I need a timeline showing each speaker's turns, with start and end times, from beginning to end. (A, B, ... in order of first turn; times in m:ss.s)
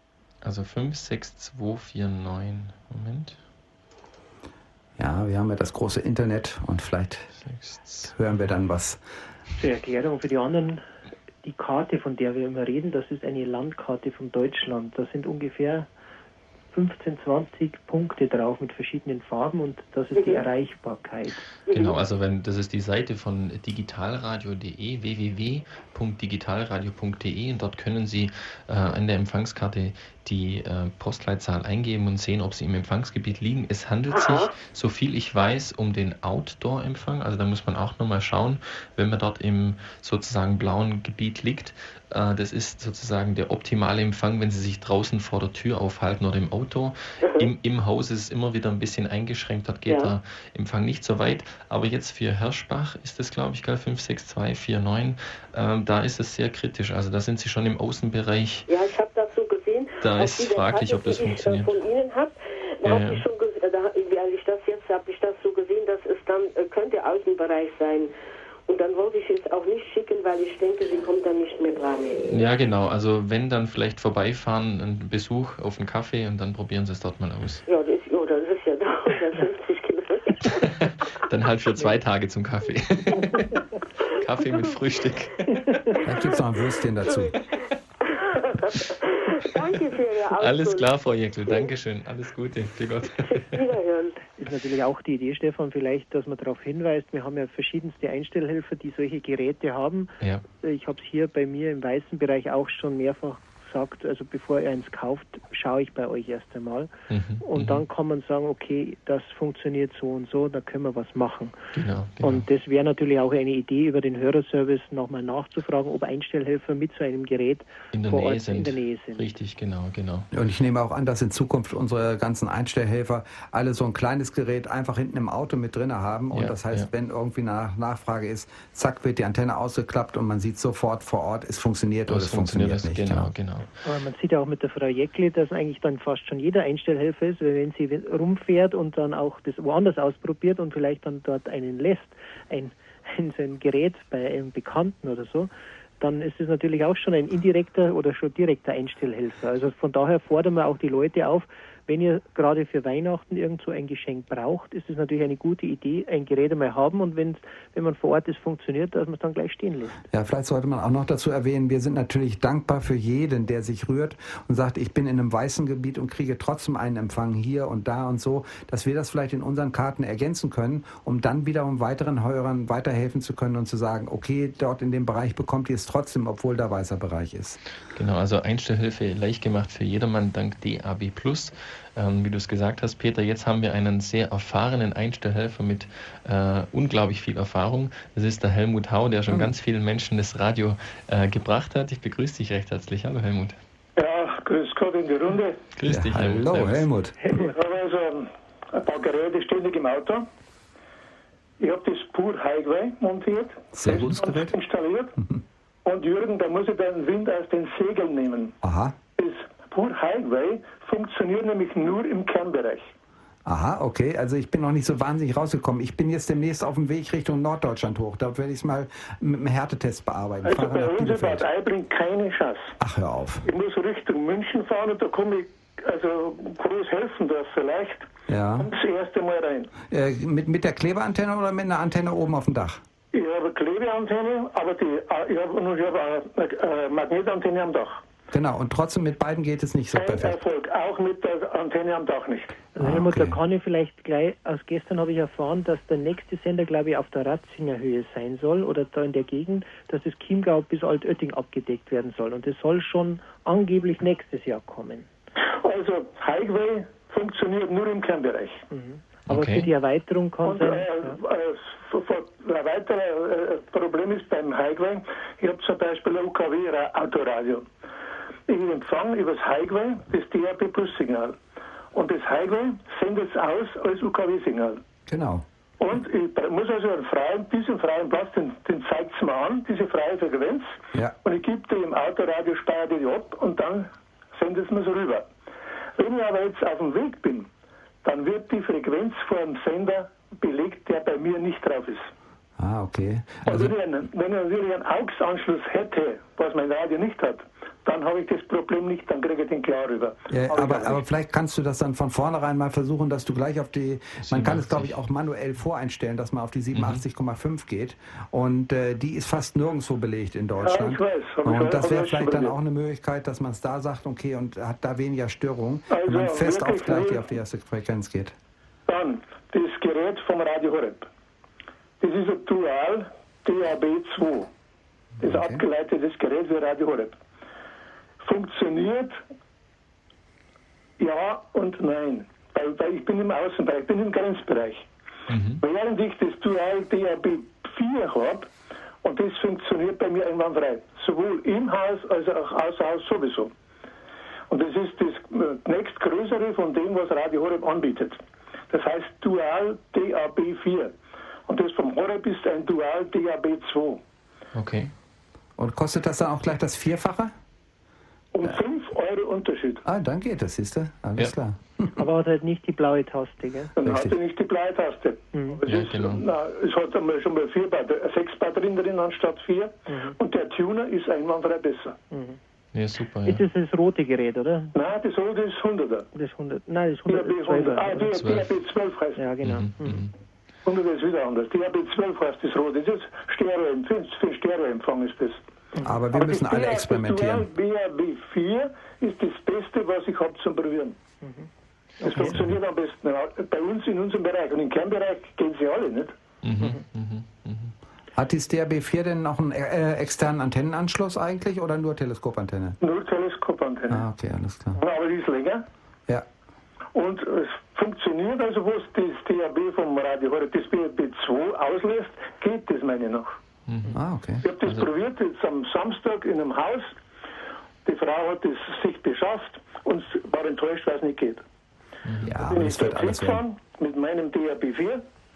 0:00.4-0:03.4 A
0:05.0-0:07.3 B
0:07.4-0:08.1 A
0:08.1-0:09.0 B
0:09.6-0:10.8 C
0:11.4-0:15.9 C
0:16.7-0:21.4 C
0:20.1-0:20.4 D
0:21.7-0:22.0 D
0:21.7-0:58.7 A
0:34.1-0:34.5 D
0:58.7-1:08.1 D
1:00.0-1:01.7 A
1:02.8-1:03.2 A
1:08.7-1:12.2 D
1:12.3-1:17.6 A
1:17.7-1:20.7 D
1:20.5-1:23.6 A
1:24.1-1:25.8 A
1:26.0-1:27.3 B
1:27.0-1:27.3 D
1:28.1-1:30.9 D
1:30.4-1:33.6 A
1:33.2-1:34.2 D
1:34.4-1:46.9 C
1:47.1-1:47.8 A
1:47.4-1:51.6 C
1:51.7-1:52.4 A
1:52.2-1:59.2 C
1:57.9-2:00.3 A
2:00.3-2:13.3 B
2:06.3-2:06.9 A
2:12.1-2:13.7 A
2:13.8-2:40.0 C
2:40.1-2:57.6 B
2:57.9-3:13.6 A
3:09.3-3:09.5 B
3:14.0-3:15.6 E
3:15.7-3:16.9 A
3:15.8-3:17.3 B
3:17.4-3:20.2 E
3:21.6-3:25.2 E
3:23.7-3:24.6 B
3:25.8-3:28.6 E
3:28.6-3:29.0 B
3:29.2-3:32.9 E
3:33.4-3:41.4 B
3:40.4-3:42.8 E
3:42.8-3:43.5 B
3:43.4-3:49.7 E
3:48.3-3:48.7 B
3:49.9-3:52.8 B
3:53.1-3:58.0 E
3:58.3-4:00.4 B
3:59.9-4:02.7 E
4:02.7-4:15.1 C
4:02.8-4:03.4 B
4:15.6-4:18.6 E
4:18.7-4:21.2 C
4:19.3-4:19.7 A
4:20.4-4:27.7 E
4:28.5-4:31.4 E
4:31.9-4:34.8 E
4:35.1-4:35.4 B
4:35.8-4:45.3 E
4:46.0-4:47.5 E
4:48.0-4:52.1 E
4:52.6-4:53.8 B
4:53.5-5:01.0 E
5:00.3-5:18.3 B
5:04.2-5:04.9 A
5:06.7-5:07.0 A
5:10.6-5:12.6 E
5:15.9-5:17.3 E
5:18.9-5:21.1 E
5:22.0-5:24.5 E
5:25.2-5:25.6 B
5:25.2-5:27.2 E
5:28.2-5:29.2 E
5:31.0-5:34.9 E
5:35.3-5:35.6 A
5:35.6-5:38.5 E
5:39.0-5:43.5 E
5:44.5-5:50.9 E
5:51.5-5:54.0 E
5:54.5-5:54.9 A
5:55.6-5:57.3 B
5:58.3-5:59.8 E
5:59.8-6:02.1 B
6:02.0-6:03.7 C
6:03.8-6:12.0 E
6:03.8-6:04.2 B
6:05.3-6:05.6 C
6:05.6-6:06.2 A
6:09.9-6:10.2 C
6:12.1-6:12.4 C
6:12.7-6:13.4 A
6:13.2-6:14.7 C
6:14.7-6:16.1 E
6:16.1-6:18.1 C
6:17.1-6:19.2 E
6:18.2-6:18.5 A
6:19.2-6:20.0 C
6:19.4-6:20.1 A
6:20.6-6:25.4 E
6:25.8-6:27.5 B
6:26.1-6:31.0 E
6:32.0-6:32.4 C
6:32.0-6:36.2 E
6:32.1-6:32.5 B
6:36.4-6:37.7 A
6:38.2-6:42.8 B
6:42.8-6:44.0 E
6:43.9-6:44.8 B
6:44.8-6:45.6 E
6:46.9-6:53.4 E
6:53.7-6:54.0 A
6:53.9-6:54.4 B
6:54.4-6:56.9 E
6:54.6-6:54.9 A
6:57.8-7:01.4 E
7:02.0-7:02.3 A
7:02.2-7:03.4 B
7:02.4-7:05.0 E